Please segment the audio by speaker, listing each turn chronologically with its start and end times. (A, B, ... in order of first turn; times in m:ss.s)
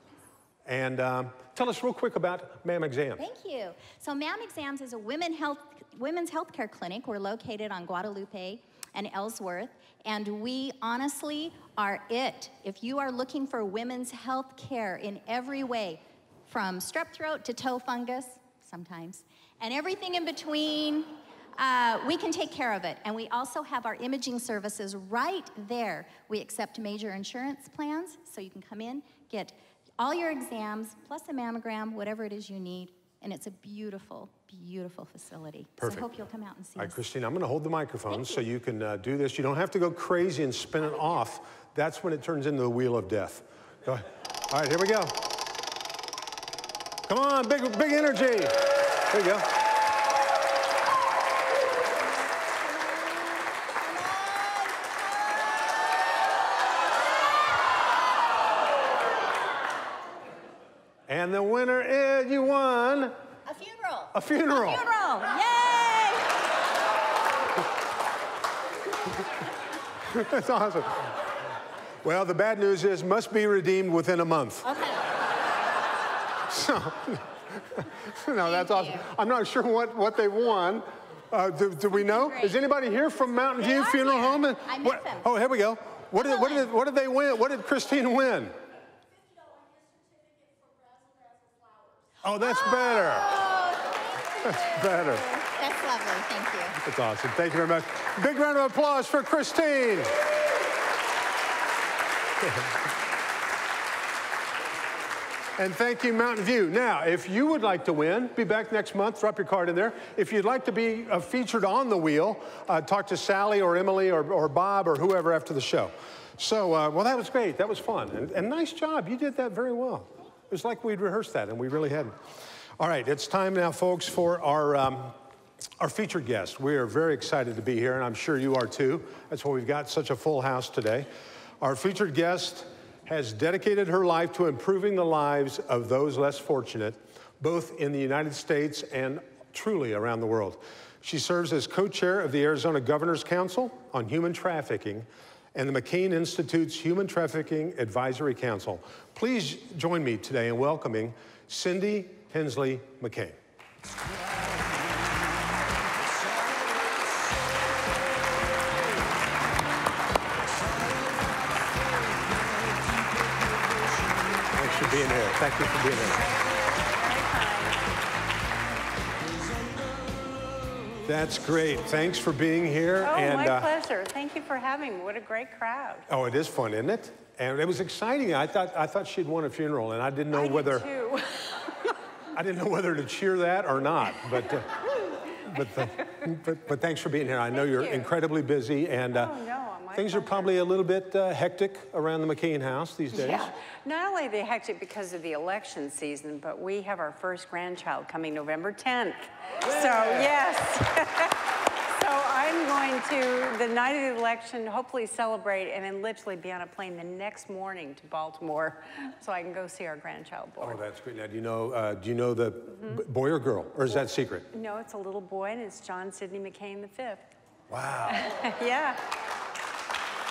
0:00.7-0:03.2 A
0:03.2-0:37.0 B
0:35.8-0:36.1 A
0:36.8-0:45.3 A
0:47.1-0:49.5 A
0:52.8-0:55.8 B
1:01.1-1:03.2 A
1:03.5-1:06.4 B
1:04.1-1:04.9 A
1:10.1-1:11.1 A
1:12.0-1:14.7 A
1:14.6-1:15.0 B
1:16.5-1:28.6 A
1:18.4-1:19.1 B
1:21.9-1:22.6 B
1:23.6-1:25.3 B
1:26.2-1:26.7 B
1:30.8-1:36.8 B
1:32.2-1:33.4 A
1:34.4-1:35.3 A
1:36.8-1:40.2 A
1:45.6-2:02.2 A
2:02.8-2:05.2 A
2:05.8-2:11.1 A
2:11.6-2:33.4 A
2:44.5-2:46.2 A
2:46.2-2:47.8 C
2:51.0-2:53.7 A
2:53.0-2:56.1 C
2:56.1-3:00.9 A
3:00.3-3:01.7 C
3:02.3-3:09.4 A
3:07.5-3:08.1 C
3:09.1-3:10.6 C
3:09.9-3:13.5 A
3:13.1-3:30.8 C
3:30.6-3:34.5 A
3:32.7-3:33.0 C
3:34.5-3:37.3 C
3:37.7-3:38.3 A
3:38.1-3:39.0 C